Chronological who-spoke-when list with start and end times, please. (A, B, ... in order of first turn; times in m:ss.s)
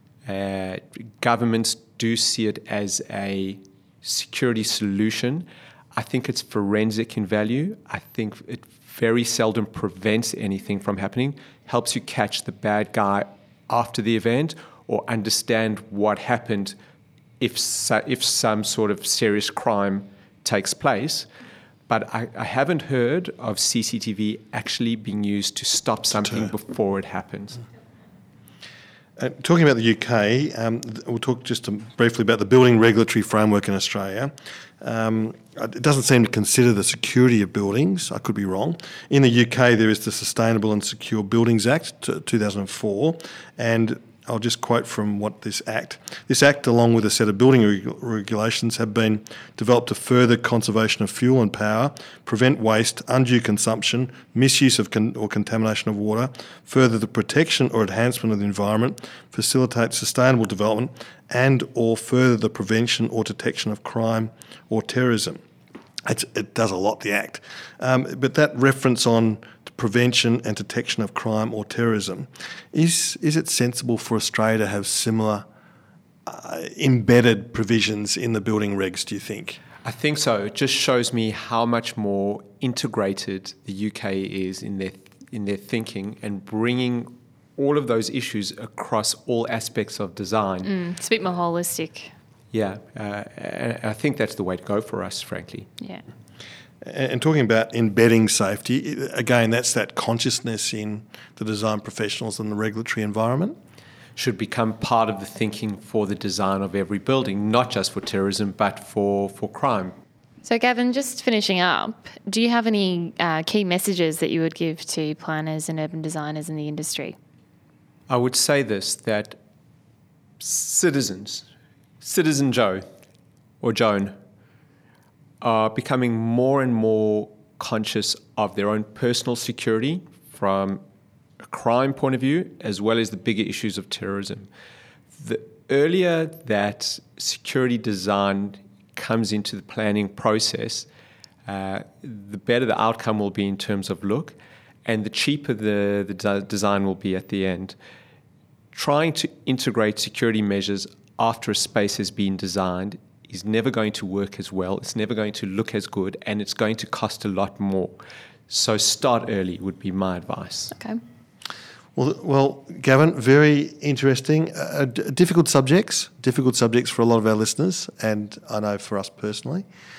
0:00.3-0:16.8 A
0:17.4-0:21.3 A
0:21.9-0:27.6 A
0:29.2-1:05.4 B
1:06.0-1:15.4 B
1:16.2-1:19.6 B
1:19.8-1:30.7 A
1:30.6-1:32.1 C
1:32.5-1:35.7 A
1:36.8-1:43.6 B
1:44.2-1:49.9 A
1:50.4-1:57.2 C
1:58.1-1:59.4 A
2:00.4-2:01.5 A
2:02.0-2:02.8 A
2:03.6-2:04.2 A
2:05.4-2:10.8 A
2:11.4-2:14.5 A
2:15.1-2:20.9 A
2:21.5-2:27.8 A
2:28.7-2:38.0 A
2:38.5-2:40.7 A
2:40.7-2:41.0 C
2:42.0-2:49.7 B